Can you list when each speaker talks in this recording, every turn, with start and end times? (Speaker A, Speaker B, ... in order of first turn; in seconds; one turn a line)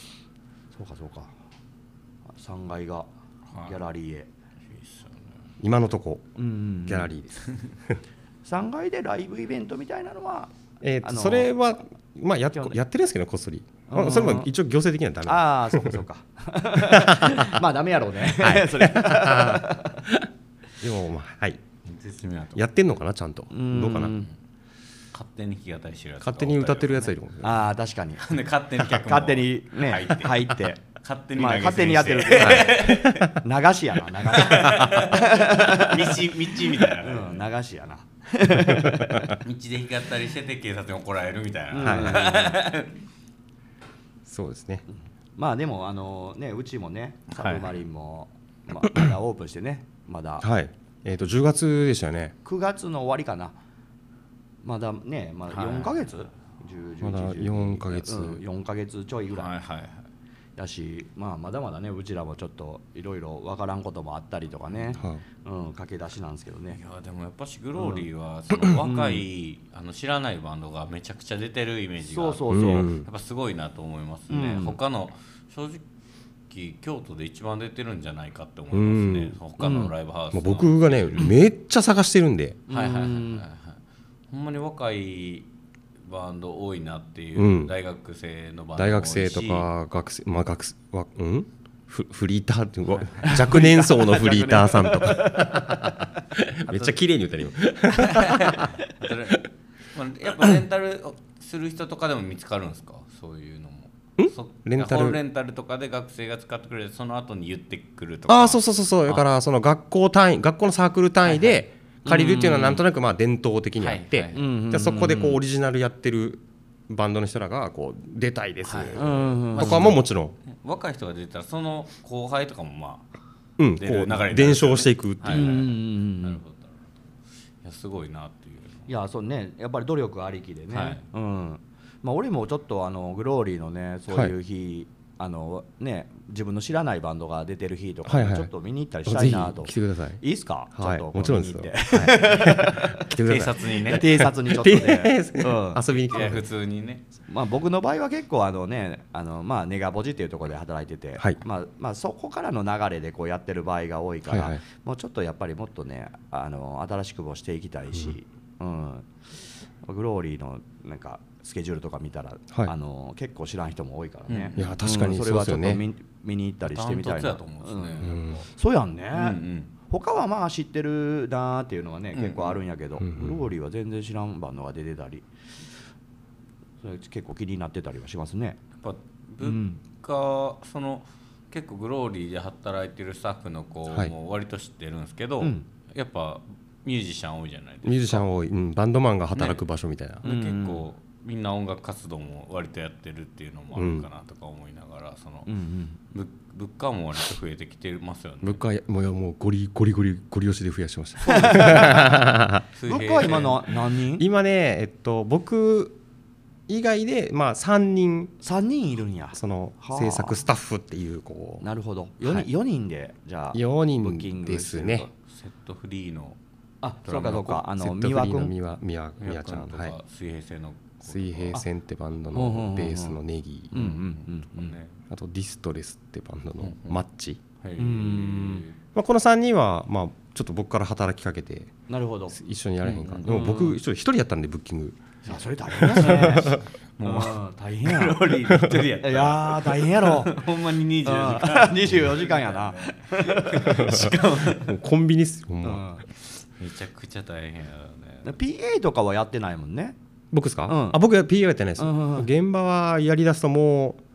Speaker A: 0.7-1.3
Speaker A: 2.3-3.1
Speaker A: 3.6-4.3
Speaker B: 4.7-5.3
Speaker C: 5.6-6.3
Speaker A: 6.4-7.1
Speaker C: 6.9-7.3
Speaker A: 8.4-10.5
Speaker C: 10.8-16.0
Speaker A: 11.0-11.5
Speaker A: 13.9-14.5
Speaker A: 15.2-20.0
Speaker C: 16.8-17.6
Speaker C: 18.4-20.3
Speaker C: 20.8-21.6
Speaker B: 21.8-22.6
Speaker C: 22.6-24.1
Speaker A: 23.5-24.3
Speaker B: 25.1-27.1
Speaker C: 26.2-27.6
Speaker A: 27.4-28.3
Speaker B: 28.2-33.3
Speaker A: 28.8-30.8
Speaker A: 31.4-39.4
Speaker C: 32.4-33.2
Speaker B: 34.3-37.4
Speaker C: 38.8-39.3
Speaker B: 39.4-42.9
Speaker A: 41.7-42.6
Speaker C: 41.8-42.4
Speaker C: 44.2-44.8
Speaker A: 45.4-50.4
Speaker B: 47.3-47.7
Speaker C: 50.4-52.3
Speaker A: 52.4-53.5
Speaker A: 54.6-59.5
Speaker B: 55.5-56.0
Speaker C: 57.0-58.4
Speaker B: 59.3-60.0
Speaker A: 60.6-66.8
Speaker B: 64.7-65.0
Speaker C: 65.0-65.2
Speaker B: 66.7-75.8
Speaker A: 67.8-68.0
Speaker A: 68.6-69.2
Speaker A: 72.1-72.9
Speaker C: 72.5-73.0
Speaker A: 74.3-74.8
Speaker B: 76.5-81.4
Speaker C: 78.7-79.4
Speaker A: 79.6-79.9
Speaker C: 80.3-82.6
Speaker A: 82.7-83.4
Speaker B: 82.7-83.8
Speaker B: 84.3-85.5
Speaker B: 86.0-89.7
Speaker C: 87.3-87.7
Speaker C: 88.8-98.8
Speaker A: 93.2-95.8
Speaker B: 96.7-96.9
Speaker B: 97.9-109.2
Speaker C: 104.2-105.2
Speaker C: 108.3-120.3
Speaker A: 112.0-112.8
Speaker B: 113.8-114.5
Speaker A: 114.3-115.4
Speaker B: 118.6-123.0
Speaker A: 118.9-119.9
Speaker C: 123.6-125.6
Speaker B: 123.8-126.8
Speaker A: 125.3-126.4
Speaker B: 127.6-128.9
Speaker A: 128.9-143.1
Speaker B: 130.7-131.0
Speaker C: 138.1-138.5
Speaker C: 139.1-140.2
Speaker C: 140.7-146.4
Speaker B: 143.1-144.1
Speaker A: 143.8-146.3
Speaker B: 146.1-147.0
Speaker A: 147.3-159.1
Speaker C: 154.3-154.6
Speaker A: 159.8-175.3
Speaker B: 164.3-164.8
Speaker C: 164.6-165.8
Speaker B: 166.6-168.4
Speaker C: 168.0-168.4
Speaker B: 169.1-169.7
Speaker B: 172.1-172.6
Speaker C: 173.0-173.5
Speaker A: 176.8-178.6
Speaker B: 178.8-188.2
Speaker A: 179.4-179.8
Speaker A: 185.4-185.7
Speaker C: 187.8-190.2
Speaker B: 189.3-189.6
Speaker B: 190.2-195.5
Speaker A: 190.2-190.9
Speaker C: 193.7-194.1
Speaker A: 195.5-196.0
Speaker B: 196.1-198.6
Speaker C: 198.4-202.6
Speaker A: 201.2-202.2
Speaker B: 202.8-203.7
Speaker A: 202.8-204.3
Speaker C: 204.2-206.0
Speaker C: 206.7-208.3
Speaker A: 208.4-210.4
Speaker C: 209.3-211.6
Speaker A: 211.6-215.1
Speaker C: 213.5-215.1
Speaker B: 215.2-216.4
Speaker A: 216.8-218.5
Speaker B: 217.1-217.6
Speaker C: 217.4-219.9
Speaker B: 219.2-221.6
Speaker C: 221.0-223.9
Speaker A: 222.3-223.2
Speaker A: 223.7-224.7
Speaker B: 223.7-224.9
Speaker C: 225.1-227.4
Speaker B: 226.6-226.9
Speaker B: 227.6-228.8
Speaker A: 227.8-228.7
Speaker C: 228.9-231.7
Speaker A: 231.9-232.4
Speaker C: 232.3-235.0
Speaker B: 232.8-233.6
Speaker A: 233.2-233.8
Speaker A: 235.2-240.4
Speaker C: 235.8-236.6
Speaker B: 236.0-244.8
Speaker A: 241.0-243.9
Speaker C: 243.7-245.8
Speaker A: 245.6-246.0
Speaker B: 246.6-248.3
Speaker A: 248.2-249.9
Speaker C: 250.3-254.0
Speaker A: 250.7-251.0
Speaker A: 251.8-252.3